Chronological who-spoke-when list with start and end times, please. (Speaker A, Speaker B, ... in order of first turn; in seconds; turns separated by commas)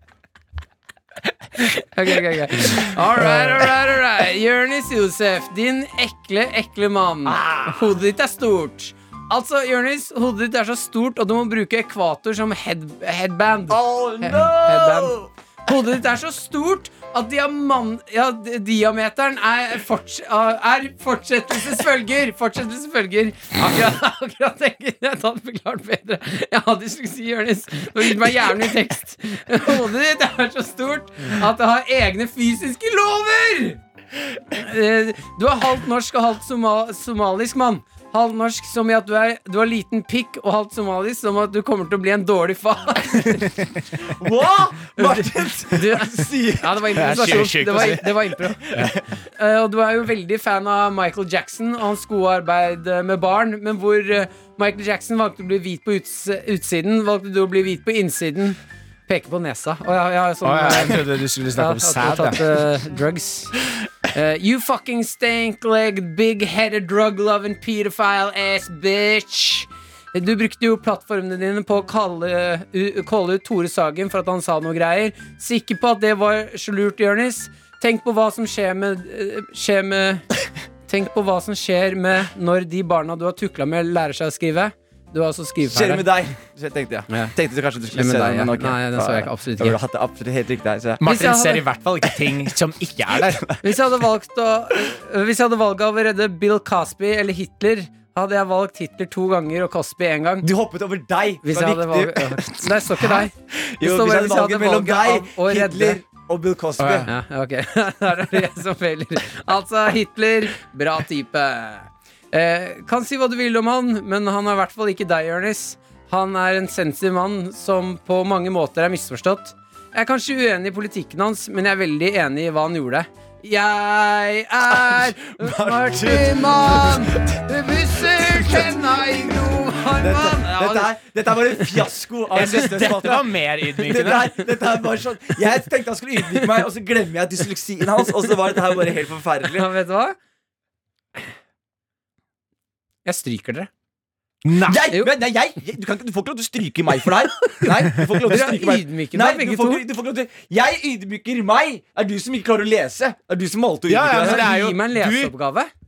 Speaker A: 1.6-33.8, Speaker B: 7.2-7.9, Speaker B: 13.7-15.3, Speaker A: 34.5-43.7, Speaker B: 44.0-47.4, Speaker A: 45.0-63.6, Speaker C: 46.9-48.1, Speaker B: 48.4-49.0, Speaker C: 60.4-62.6, Speaker A: 64.1-80.2, Speaker A: 80.9-86.1, Speaker B: 85.7-91.0, Speaker A: 87.9-89.8, Speaker C: 91.0-93.4, Speaker A: 91.0-91.6, Speaker A: 93.6-100.5, Speaker B: 100.4-107.1, Speaker A: 101.4-106.0, Speaker C: 106.8-107.1, Speaker A: 107.0-130.9, Speaker B: 124.7-127.4, Speaker B: 128.2-128.7, Speaker B: 130.0-139.7, Speaker C: 132.3-134.4, Speaker A: 139.5-140.2, Speaker A: 143.0-143.7, Speaker C: 144.4-144.8, Speaker B: 144.7-154.5, Speaker A: 148.2-149.8, Speaker C: 153.9-155.3, Speaker A: 154.1-155.7